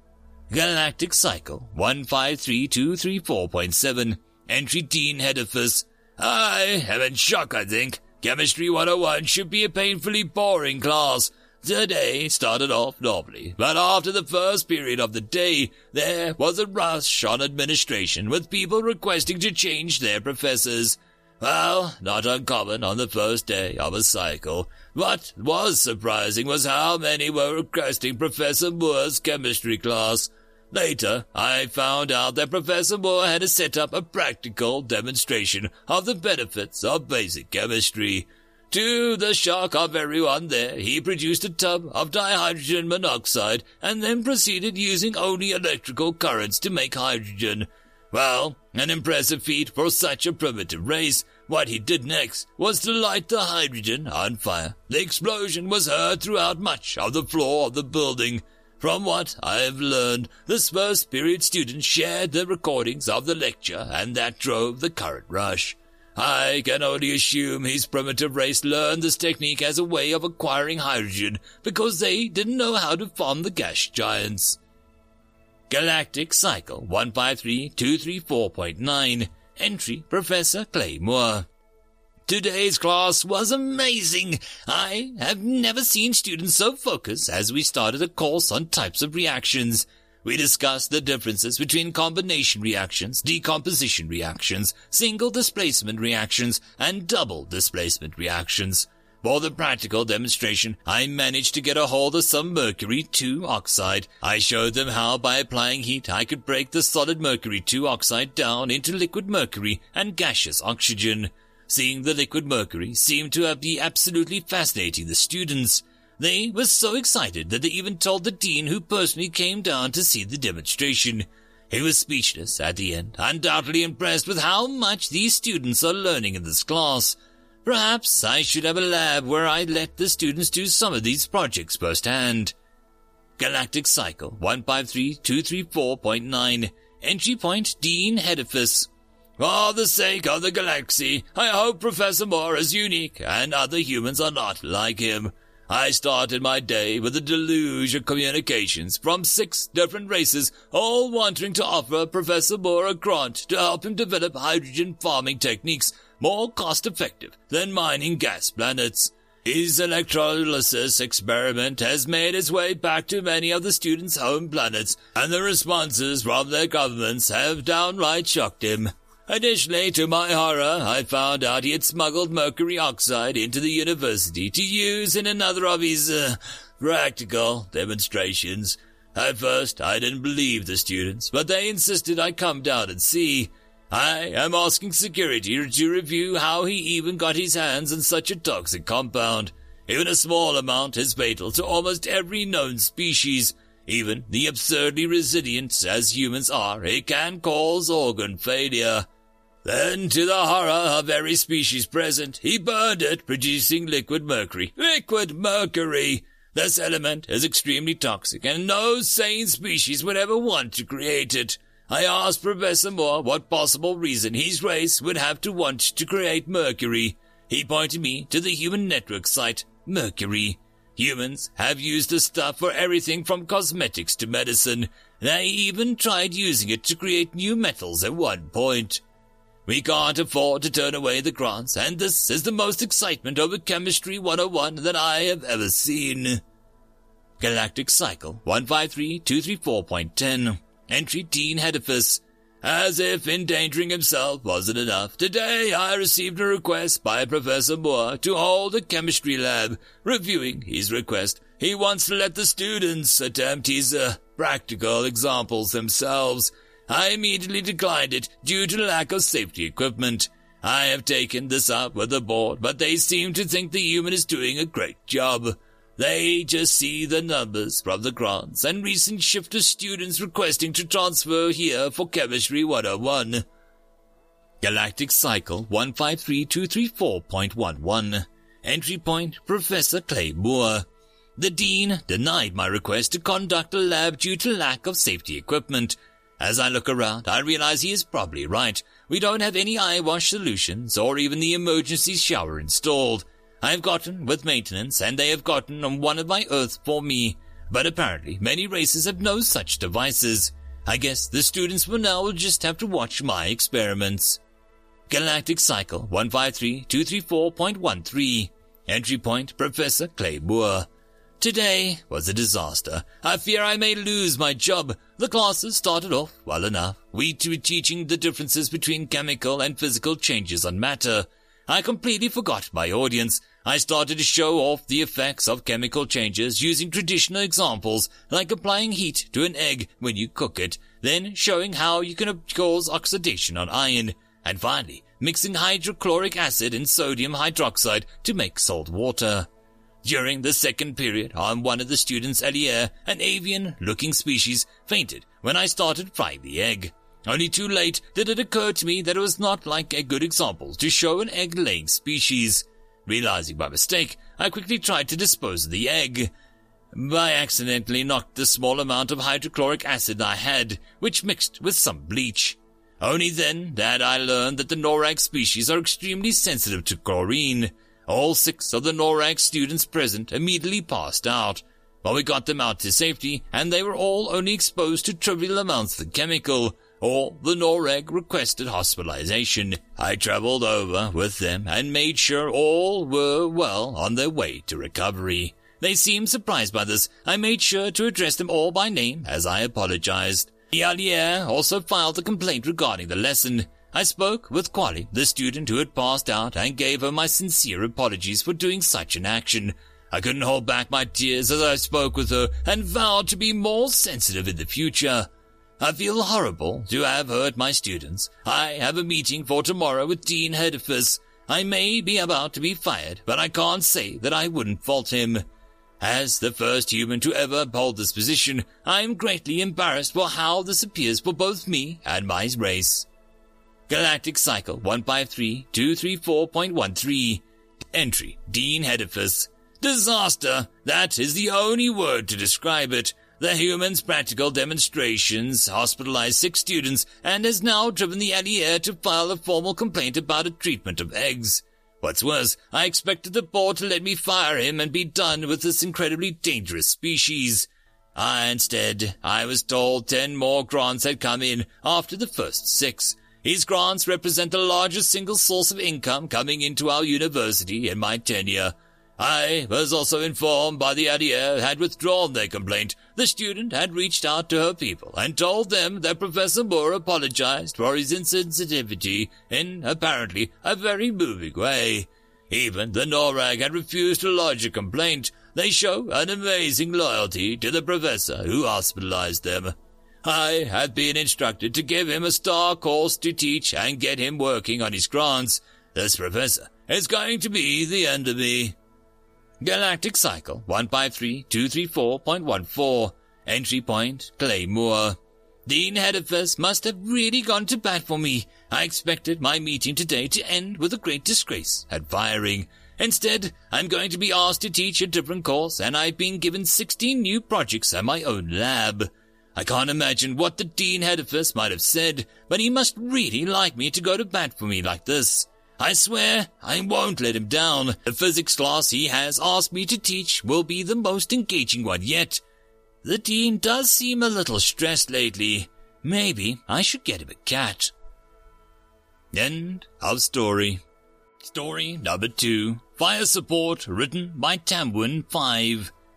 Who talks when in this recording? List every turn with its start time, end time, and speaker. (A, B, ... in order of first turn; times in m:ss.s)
0:00.5-1:14.6 A
1:15.7-1:21.5 A
1:22.3-2:12.5 A
2:13.4-3:19.1 A
3:19.6-3:49.0 A
3:49.7-3:56.4 A
3:57.4-4:33.4 A
4:34.6-4:40.9 A
4:41.4-5:04.4 A
5:05.1-5:10.9 A
5:11.4-5:39.5 A
5:40.0-5:56.3 A
5:56.9-6:45.3 A
6:45.8-6:55.4 A
6:56.0-7:03.1 A
7:03.9-8:08.8 A
8:09.6-8:42.4 A
8:43.0-8:47.9 A
8:49.3-8:50.8 A
8:51.4-8:55.9 A